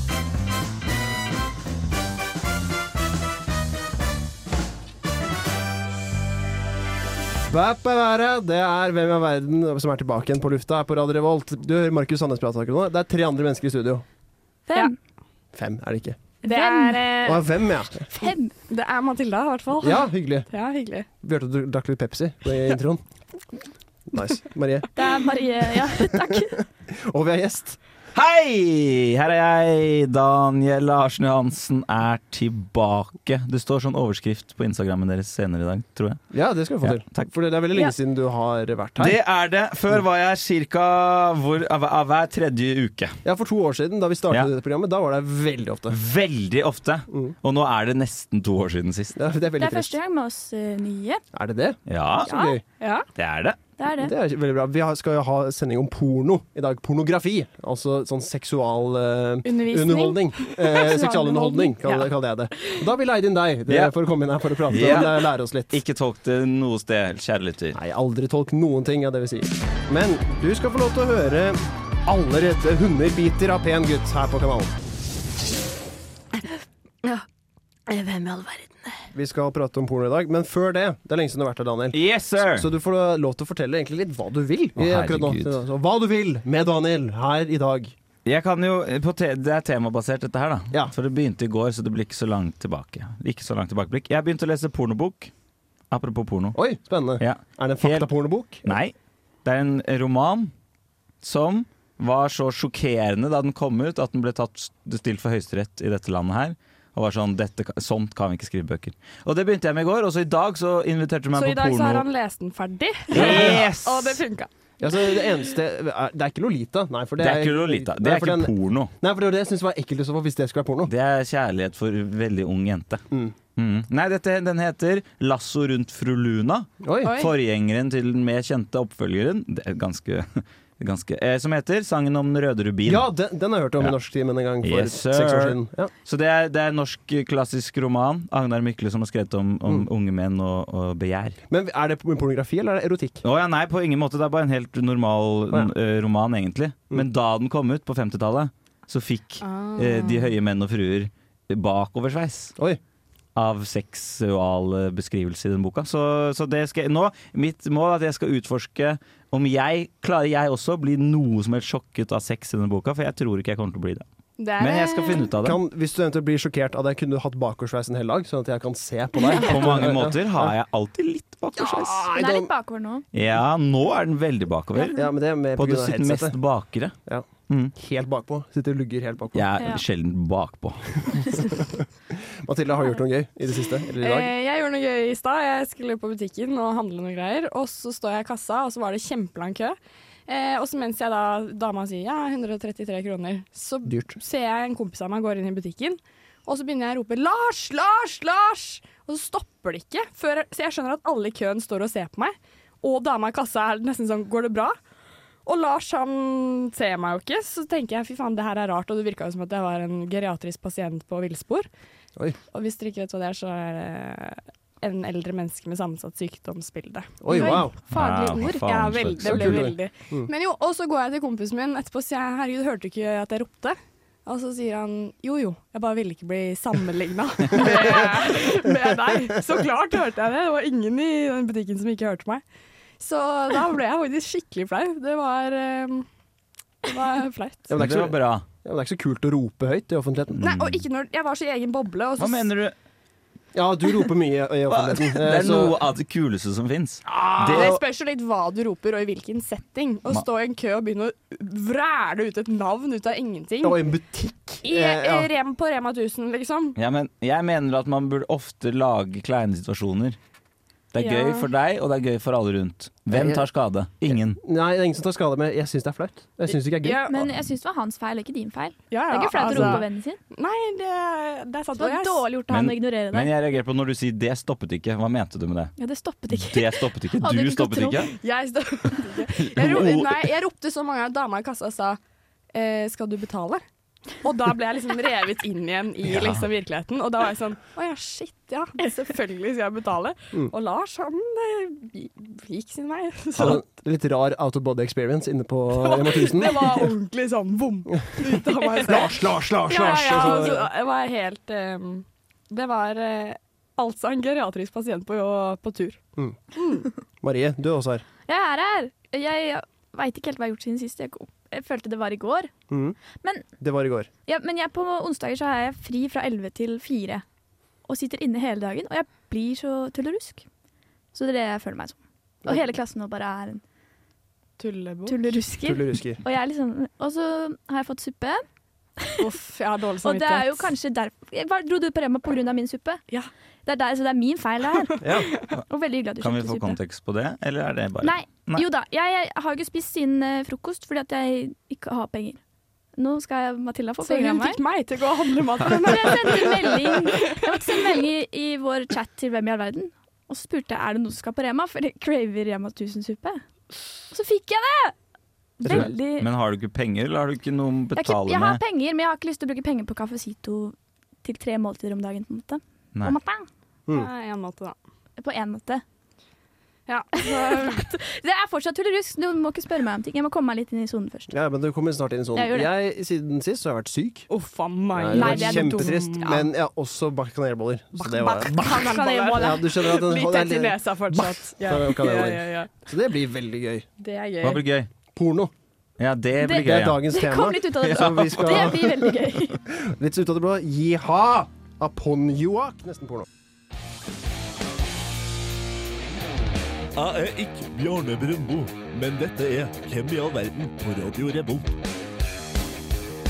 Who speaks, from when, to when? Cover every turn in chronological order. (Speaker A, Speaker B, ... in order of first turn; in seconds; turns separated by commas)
Speaker A: 7.5-14.0, Speaker B: 14.7-14.9, Speaker A: 15.5-16.2, Speaker B: 16.4-17.2, Speaker C: 16.4-17.5, Speaker A: 17.2-18.1, Speaker B: 18.1-18.5, Speaker C: 18.7-21.1, Speaker A: 19.8-20.5, Speaker A: 21.2-23.0, Speaker A: 24.1-24.9, Speaker B: 24.9-26.6, Speaker A: 25.9-27.8, Speaker D: 28.1-36.2, Speaker A: 36.3-39.2, Speaker D: 36.8-37.3, Speaker D: 39.0-43.2, Speaker A: 43.2-46.0, Speaker D: 45.9-49.2, Speaker A: 49.1-50.0, Speaker B: 49.6-51.2, Speaker A: 51.3-52.6, Speaker D: 51.9-52.3, Speaker B: 52.2-52.6, Speaker C: 52.8-53.1, Speaker D: 53.1-53.6, Speaker B: 53.8-54.1, Speaker A: 54.0-65.8, Speaker C: 59.4-62.1, Speaker D: 64.6-67.8, Speaker A: 67.7-74.7, Speaker C: 77.9-78.7, Speaker A: 79.1-87.9, Speaker D: 81.9-82.7, Speaker D: 84.8-85.5, Speaker D: 88.2-95.3, Speaker D: 95.9-96.6, Speaker A: 96.5-98.8, Speaker D: 97.2-98.1, Speaker D: 98.6-100.5, Speaker D: 101.2-112.1, Speaker C: 111.3-114.5, Speaker A: 113.1-113.7, Speaker D: 113.1-114.2, Speaker A: 114.8-120.9, Speaker D: 117.2-118.9, Speaker D: 120.8-123.0, Speaker A: 123.1-123.3, Speaker D: 123.5-133.1, Speaker A: 126.8-127.1, Speaker C: 127.0-127.3, Speaker A: 132.8-135.9, Speaker D: 134.6-141.4, Speaker A: 141.5-143.2, Speaker D: 143.2-152.5, Speaker C: 149.4-150.3, Speaker D: 153.3-164.1, Speaker C: 164.4-165.3, Speaker D: 164.6-165.6, Speaker A: 165.4-170.5, Speaker D: 169.2-172.1, Speaker A: 171.6-172.5, Speaker B: 172.1-173.0, Speaker D: 173.1-176.9, Speaker B: 174.8-175.0, Speaker A: 174.9-176.3, Speaker A: 177.1-179.6, Speaker D: 179.3-181.4, Speaker A: 181.4-184.3, Speaker C: 184.0-189.8, Speaker C: 190.3-204.8, Speaker A: 193.8-194.1, Speaker C: 205.4-211.7, Speaker C: 212.5-217.7, Speaker A: 217.2-217.7, Speaker B: 217.3-218.7, Speaker D: 217.9-219.7, Speaker C: 218.4-232.4, Speaker A: 219.2-220.3, Speaker A: 227.5-228.1, Speaker C: 233.0-236.1, Speaker C: 236.8-237.7, Speaker A: 237.7-240.8, Speaker D: 237.7-238.4, Speaker C: 240.4-242.5, Speaker D: 242.2-242.7, Speaker A: 243.5-245.8, Speaker D: 244.7-247.8, Speaker A: 247.1-247.8, Speaker C: 247.4-253.8, Speaker A: 253.6-255.3, Speaker C: 254.6-256.8, Speaker D: 256.8-260.2, Speaker D: 260.9-264.4, Speaker C: 260.9-261.5, Speaker A: 263.1-263.5, Speaker A: 264.1-267.3, Speaker C: 266.5-267.2, Speaker B: 267.0-270.2, Speaker C: 268.9-272.2, Speaker A: 269.5-269.8, Speaker B: 271.8-273.3, Speaker D: 272.5-275.7, Speaker B: 275.8-278.1, Speaker D: 276.3-278.1, Speaker C: 278.1-282.0, Speaker D: 279.4-280.3, Speaker C: 282.5-283.6, Speaker C: 284.2-293.6, Speaker D: 286.0-286.4, Speaker A: 293.4-296.9, Speaker C: 295.7-299.1, Speaker A: 298.2-300.7, Speaker C: 299.7-306.0, Speaker C: 306.5-306.9, Speaker A: 307.2-308.0, Speaker B: 308.3-312.5, Speaker A: 312.7-313.0, Speaker A: 313.6-314.1, Speaker B: 314.3-317.2, Speaker B: 317.9-320.4, Speaker B: 321.1-323.6, Speaker C: 324.6-325.3, Speaker B: 325.1-328.4, Speaker A: 325.6-326.2, Speaker B: 329.0-329.2, Speaker C: 329.2-330.7, Speaker B: 330.0-333.0, Speaker B: 333.6-334.9, Speaker C: 334.9-335.4, Speaker A: 335.0-335.3, Speaker B: 335.5-336.8, Speaker D: 336.2-338.6, Speaker B: 338.0-342.4, Speaker B: 343.0-344.6, Speaker C: 344.0-347.9, Speaker B: 345.7-353.4, Speaker B: 354.1-354.9, Speaker A: 355.6-355.9, Speaker B: 355.6-356.3, Speaker D: 355.6-358.6, Speaker B: 357.9-363.5, Speaker C: 363.9-364.8, Speaker B: 365.2-365.8, Speaker C: 366.9-367.8, Speaker B: 367.1-371.4, Speaker A: 371.3-374.3, Speaker B: 372.3-372.7, Speaker C: 374.3-376.4, Speaker A: 374.9-383.9, Speaker B: 375.1-376.4, Speaker C: 377.9-382.7, Speaker B: 378.6-379.7, Speaker C: 384.0-384.6, Speaker D: 384.4-384.9, Speaker A: 385.1-385.5, Speaker D: 386.0-387.1, Speaker B: 386.4-389.6, Speaker A: 386.4-393.2, Speaker D: 387.8-388.7, Speaker E: 396.9-401.7